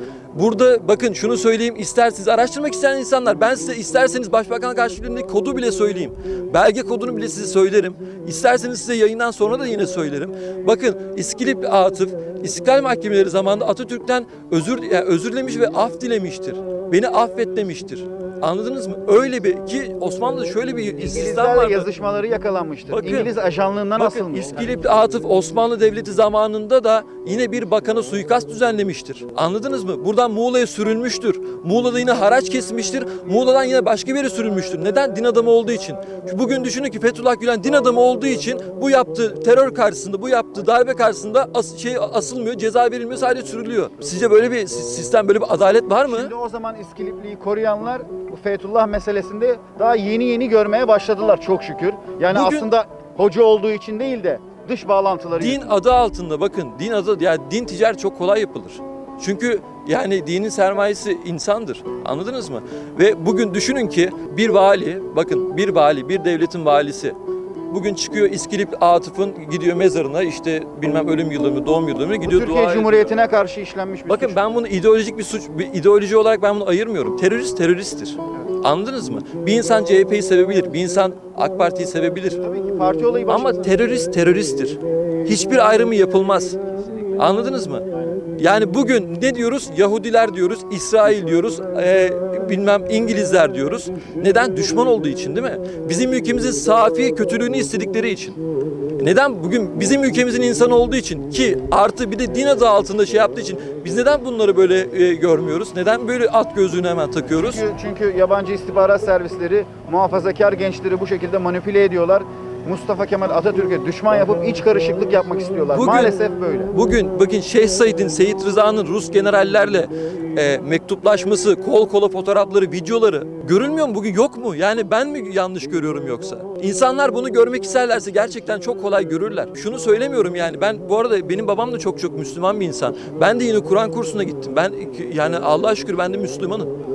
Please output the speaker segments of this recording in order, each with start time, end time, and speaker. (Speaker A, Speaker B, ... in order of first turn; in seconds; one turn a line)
Speaker A: 0.3-21.9
Speaker B: 21.0-24.8
Speaker A: 22.9-23.3
Speaker A: 24.0-46.3
Speaker B: 46.1-55.7
Speaker A: 52.3-52.7
Speaker A: 55.4-67.2
Speaker A: 67.7-73.1
Speaker B: 72.2-74.4
Speaker A: 74.1-82.4
Speaker B: 82.4-83.7
Speaker A: 83.3-86.6
Speaker A: 87.2-87.9
Speaker A: 88.4-98.4
Speaker A: 99.0-107.6
Speaker B: 107.4-116.7
Speaker A: 115.7-116.2
Speaker A: 116.7-136.7